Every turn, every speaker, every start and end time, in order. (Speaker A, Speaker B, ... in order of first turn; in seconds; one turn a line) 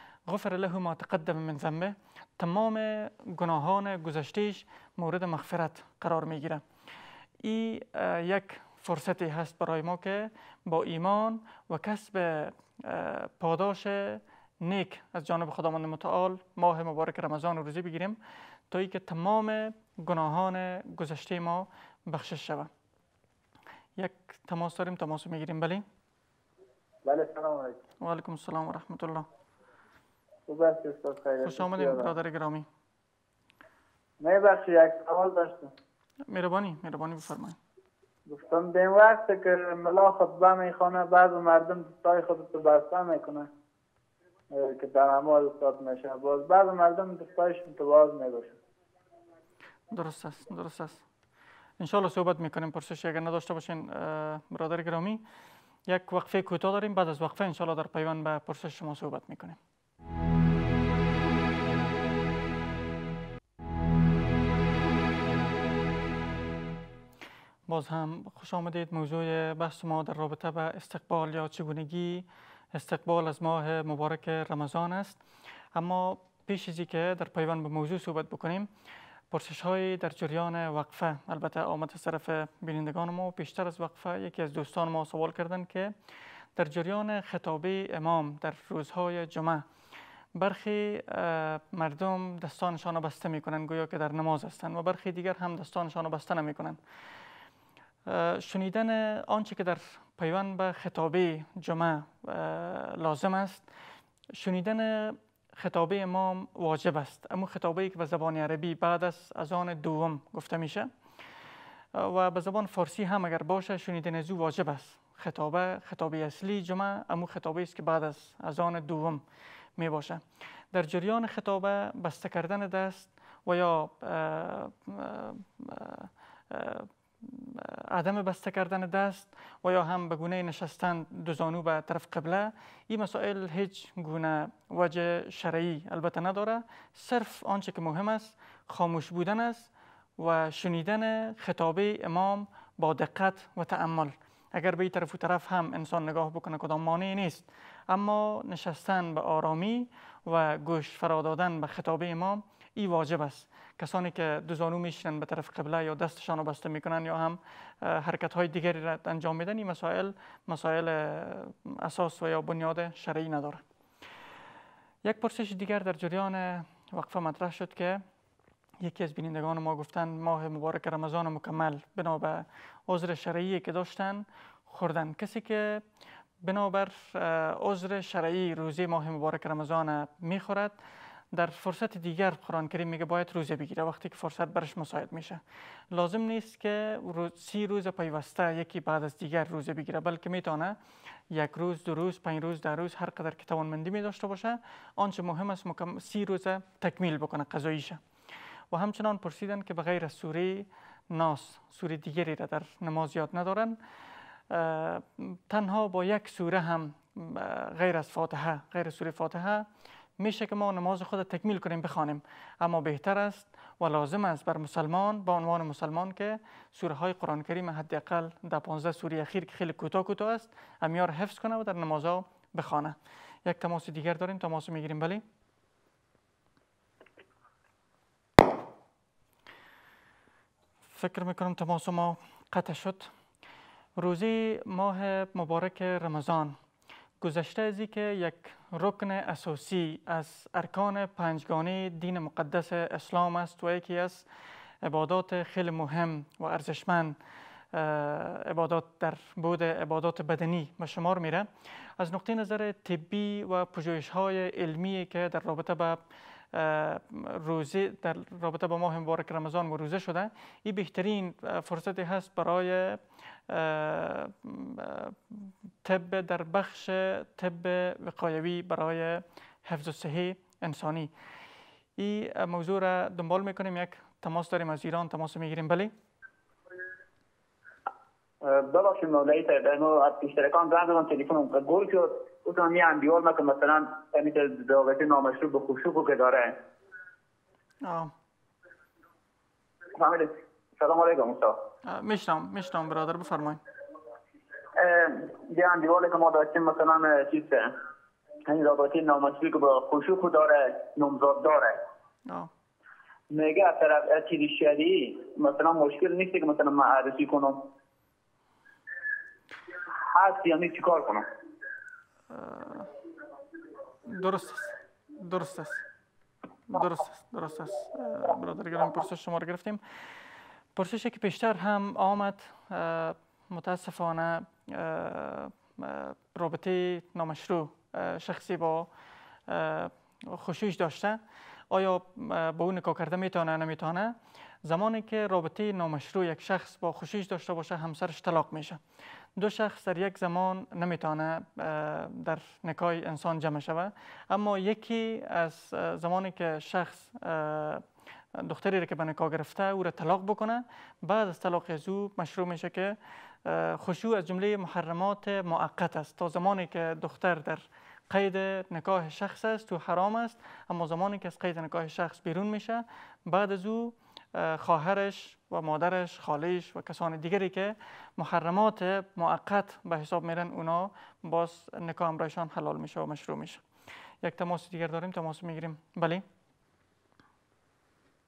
Speaker A: 0.2-6.6
Speaker A: 7.4-18.2
Speaker A: 18.7-22.7
Speaker A: 24.0-25.8
Speaker B: 27.0-27.8
Speaker A: 28.0-29.3
Speaker B: 30.5-32.1
Speaker A: 31.4-32.7
Speaker B: 34.2-35.7
Speaker A: 36.3-37.6
Speaker B: 38.3-43.5
Speaker B: 44.5-48.6
Speaker A: 49.9-51.0
Speaker A: 51.8-55.2
Speaker A: 55.9-59.6
Speaker A: 67.7-75.2
Speaker A: 75.7-78.7
Speaker A: 79.3-85.9
Speaker A: 86.5-89.6
Speaker A: 90.3-96.8
Speaker A: 98.0-103.7
Speaker A: 104.3-110.9
Speaker A: 111.9-119.2
Speaker A: 119.8-120.2
Speaker A: 120.7-163.6
Speaker A: 165.0-168.0
Speaker A: 168.8-175.8
Speaker A: 176.4-180.8
Speaker A: 181.3-185.4
Speaker A: 185.9-190.8
Speaker A: 191.3-198.0
Speaker A: 198.7-203.8
Speaker A: 204.5-209.7
Speaker A: 210.2-225.2
Speaker A: 230.9-233.1
Speaker A: 234.0-236.6
Speaker A: 237.2-244.2
Speaker A: 244.8-247.2
Speaker A: 247.7-256.0
Speaker A: 256.5-271.1
Speaker A: 272.0-275.9
Speaker C: 278.4-286.6
Speaker A: 287.8-288.1
Speaker C: 289.9-291.6
Speaker A: 291.8-293.6
Speaker C: 294.8-297.7
Speaker C: 298.4-301.8
Speaker C: 303.3-307.6
Speaker C: 310.1-311.2
Speaker A: 312.3-312.9
Speaker A: 314.1-315.8
Speaker A: 316.7-319.8
Speaker A: 320.7-328.9
Speaker A: 329.5-331.2
Speaker A: 331.7-338.8
Speaker A: 339.4-347.8
Speaker A: 348.3-373.6
Speaker A: 374.2-376.2